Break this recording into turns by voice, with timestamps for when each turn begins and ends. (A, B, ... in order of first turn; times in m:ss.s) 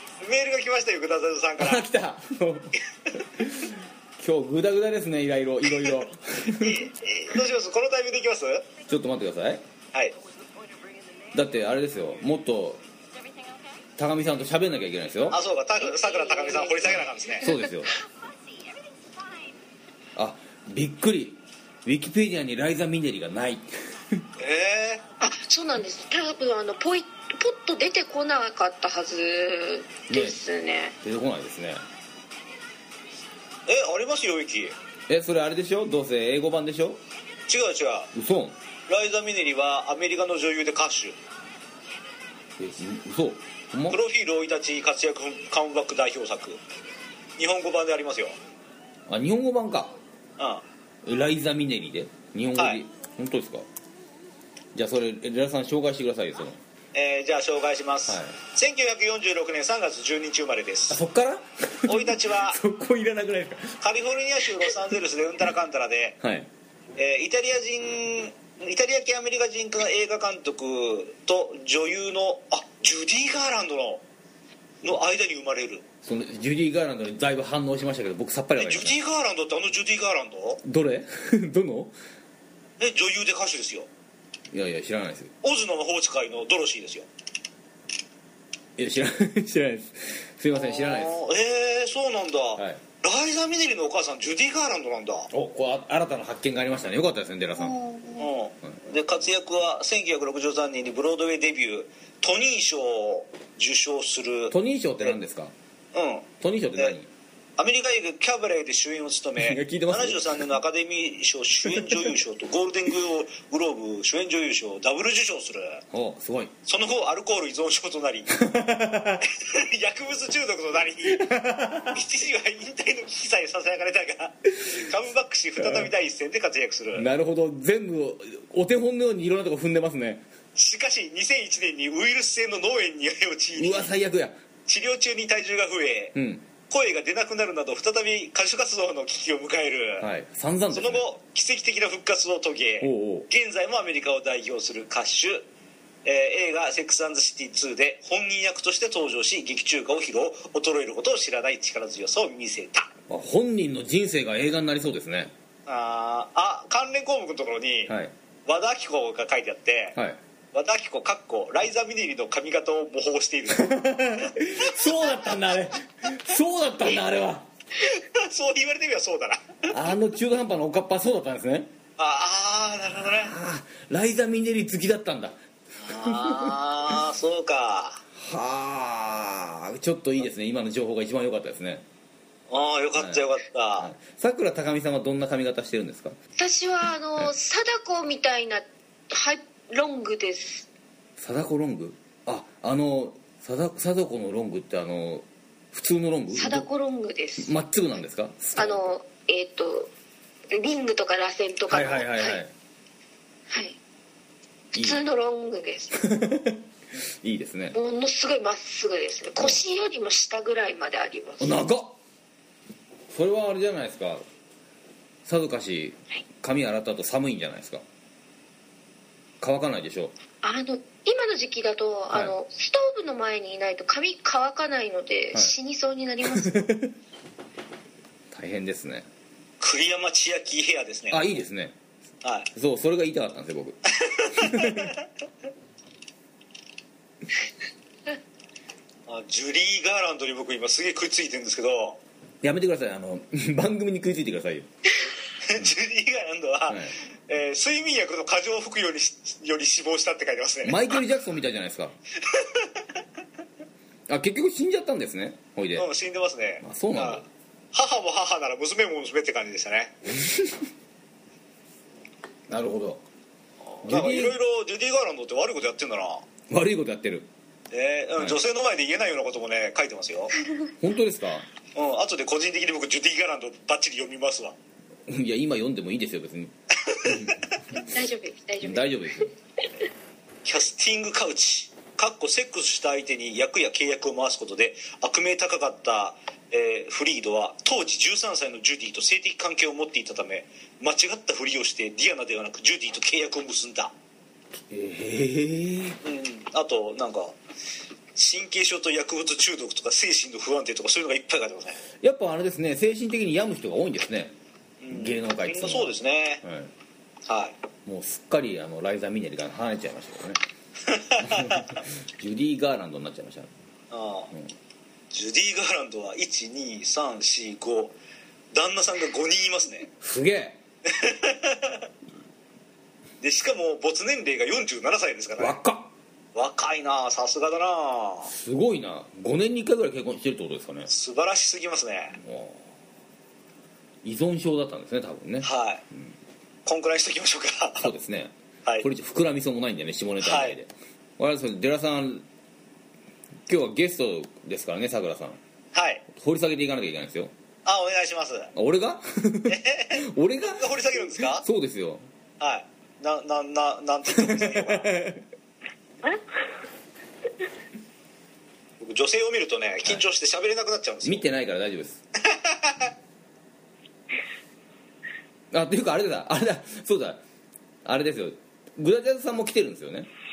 0:00.2-0:01.8 A
0:01.6-0:06.9 B
0:06.5-0:08.7 A
0:08.9-0:09.6 B
0:11.3-0:12.8 B
0:14.0-0:15.4 B
0:15.3-0:17.5 A
0:15.8-0:16.8 C
0:16.8-0:17.9 B
0:20.2-0:24.2 B
0:24.4-0:25.0 A
0:25.2-0:30.9 C
0:30.1-0:30.4 B
0:31.0-0:31.8 B
0:33.7-0:34.7 A
0:35.1-0:37.0 B
0:37.5-0:38.1 A
0:38.1-0:38.6 B
0:38.9-0:41.2 A
0:42.6-0:44.0 B
0:43.9-0:46.6 A
0:47.4-0:48.4 A
0:49.1-0:49.9 B
0:51.0-0:53.6 B
0:54.7-0:56.6 B
0:56.9-1:01.0 A
0:58.1-0:58.4 B
1:00.9-1:03.8 B
1:01.8-1:02.6 A
1:03.8-1:06.2 A
1:06.2-1:06.5 B
1:07.0-1:14.0 A
1:14.8-1:15.8 A
1:16.0-1:19.0 B
1:18.6-1:20.6 A
1:20.6-1:21.9 B
1:22.8-1:23.9 A
1:24.5-1:25.3 B
1:25.4-1:27.1 A
1:28.8-1:31.2 B
1:30.5-1:35.3 A
1:32.6-1:32.8 B
1:35.3-1:37.8 B
1:37.6-1:38.3 C
1:38.2-1:45.2 A
1:44.5-1:45.5 B
1:45.9-1:46.9 A
1:46.4-1:47.1 B
1:47.6-1:55.8 A
1:49.4-1:50.4 B
1:51.6-1:52.2 B
1:55.9-1:56.5 B
1:56.7-1:58.4 A
1:58.3-1:59.2 B
1:59.2-2:01.2 A
2:01.0-2:02.0 B
2:01.9-2:07.1 A
2:05.6-2:05.9 B
2:06.9-2:10.2 B
2:10.5-2:13.9 A
2:13.6-2:14.4 B
2:14.7-2:16.1 A
2:16.1-2:16.4 B
2:16.7-2:20.1 A
2:20.0-2:21.0 B
2:20.7-2:25.5 A
2:22.8-2:23.3 B
2:26.0-2:32.9 A
2:33.1-2:35.3 B
2:35.7-2:37.9 A
2:37.9-2:38.1 B
2:38.4-2:40.0 A
2:39.9-2:40.2 B
2:40.5-2:44.3 A
2:43.5-2:47.4 B
2:47.8-2:49.7 A
2:49.7-2:51.7 B
2:52.0-2:53.3 A
2:53.0-2:55.4 B
2:55.8-2:58.0 A
2:55.9-2:56.6 B
2:58.2-3:01.8 B
3:02.5-3:03.9 A
3:03.8-3:06.2 B
3:06.4-3:10.7 C
3:11.2-3:16.7 B
3:16.3-3:17.5 C
3:17.4-3:18.9 B
3:18.6-3:19.9 C
3:20.5-3:22.4 C
3:21.7-3:22.5 B
3:23.5-3:23.8 C
3:24.7-3:26.1 C
3:26.0-3:26.6 B
3:27.2-3:27.8 B
3:27.7-3:31.6 C
3:31.4-3:32.0 B
3:33.1-3:34.2 B
3:35.2-3:37.8 B
3:39.4-3:40.1 B
3:40.4-3:46.7 C
3:46.4-3:46.9 B
3:48.3-3:49.1 B
3:49.6-3:51.3 A
3:51.1-3:51.8 B
3:52.2-3:52.5 A
3:52.5-3:53.8 B
3:54.0-3:55.0 A
3:54.4-3:54.9 B
3:59.1-4:02.0 A
4:02.4-4:04.7 B
4:05.4-4:10.9 A
4:06.7-4:06.9 B
4:10.6-4:11.9 B
4:12.3-4:12.7 A
4:14.1-4:15.9 B
4:15.8-4:19.9 A
4:16.6-4:17.2 B
4:20.1-4:20.6 B
4:22.5-4:23.0 B
4:23.7-4:26.2 A
4:23.8-4:24.4 B
4:26.5-4:27.3 B
4:27.7-4:30.3 A
4:30.8-4:31.5 B
4:31.7-4:34.5 A
4:35.1-4:37.4 B
4:36.9-4:37.3 A
4:37.7-4:39.0 C
4:38.6-4:39.3 B
4:40.4-4:53.9 A
4:54.7-4:56.0 B
4:56.0-4:57.3 A
4:58.1-5:01.8 A
5:02.0-5:04.3 B
5:04.8-5:06.4 A
5:04.9-5:06.7 B
5:07.2-5:07.6 A
5:07.8-5:10.4 B
5:10.9-5:11.7 A
5:11.2-5:13.5 B
5:13.9-5:14.3 A
5:15.1-5:17.9 A
5:18.5-5:19.9 A
5:20.0-5:20.6 B
5:20.8-5:21.8 A
5:23.2-5:25.6 A
5:25.4-5:25.9 B
5:26.3-5:28.3 A
5:28.3-5:30.9 B
5:30.9-5:32.2 A
5:32.2-5:32.6 B
5:34.0-5:36.1 B
5:35.4-5:35.8 A
5:36.6-5:37.9 A
5:37.8-5:42.2 B
5:40.2-5:40.6 A
5:43.5-5:45.4 B
5:45.7-5:46.0 A
5:46.1-5:47.3 B
5:47.6-5:48.5 A
5:48.5-5:52.0 B
5:49.5-5:51.4 A
5:52.4-5:54.9 A
5:54.2-5:55.2 B
5:58.8-6:01.3 A
6:01.0-6:02.0 B
6:02.2-6:02.9 A
6:05.5-6:07.2 B
6:07.8-6:10.1 B